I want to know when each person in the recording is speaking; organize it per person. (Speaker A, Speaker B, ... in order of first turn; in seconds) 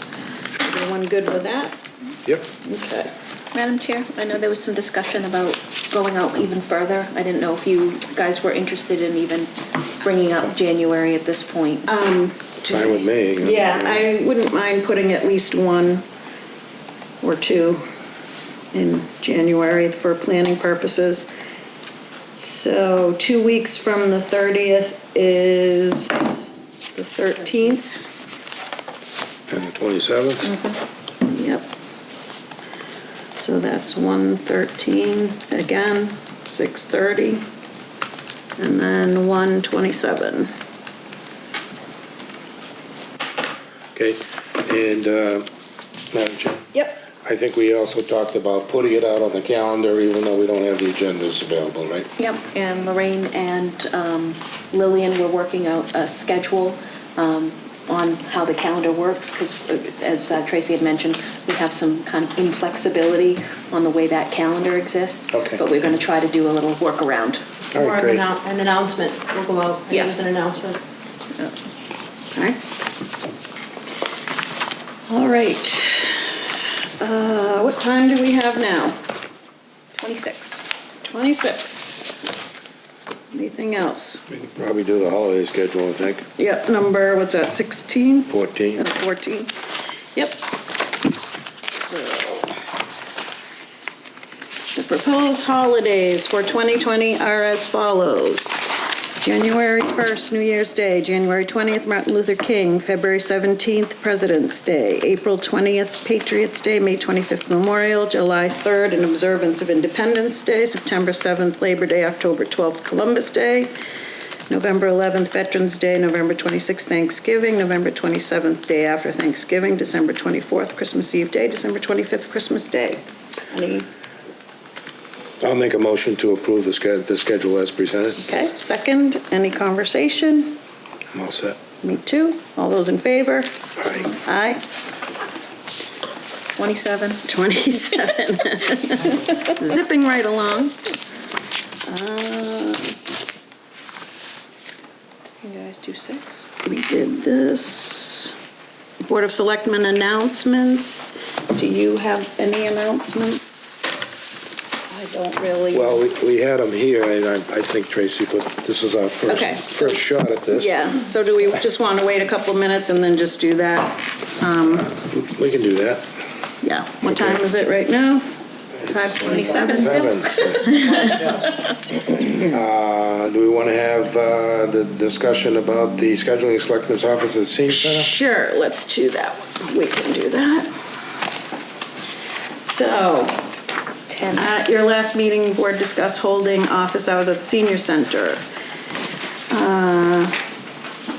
Speaker A: 0.6-1.8, 2.6-3.1, 11.9-16.0, 17.2-17.8, 18.7-21.3, 22.3-26.3, 26.9-27.9, 31.2-31.7, 33.3-37.5, 38.6-40.5, 46.7-47.0, 72.3-72.6, 75.1-76.3, 77.0-79.0, 81.1-82.3, 83.3-84.2, 86.4-89.5, 90.1-90.4, 91.7-92.5, 94.7-98.6, 99.2-113.7, 114.5-123.9, 128.2-130.6, 131.8-133.5, 134.0-134.6, 137.2-140.7, 141.8-142.9, 146.6-148.3, 149.0-153.9, 154.9-156.0, 159.3-164.9, 166.6-168.2, 168.9-171.7, 177.7-180.7, 182.6-183.4, 184.3-188.4, 189.5-190.3
Speaker B: 3.5-11.9, 30.4-30.8, 52.2-67.4, 69.9-70.2, 80.0-80.6, 136.6-137.2, 145.4-146.5, 169.3-170.9, 184.1-184.4
Speaker C: 12.6-14.0, 29.5-30.5, 44.0-45.5, 46.1-46.7, 47.2-52.1, 65.3-65.6, 67.7-68.2, 84.3-86.2, 88.3-88.8, 125.4-128.3, 131.1-131.6, 133.8-134.1, 155.7-160.7, 164.9-166.1, 168.8-171.1, 172.1-178.1
Speaker D: 67.8-70.8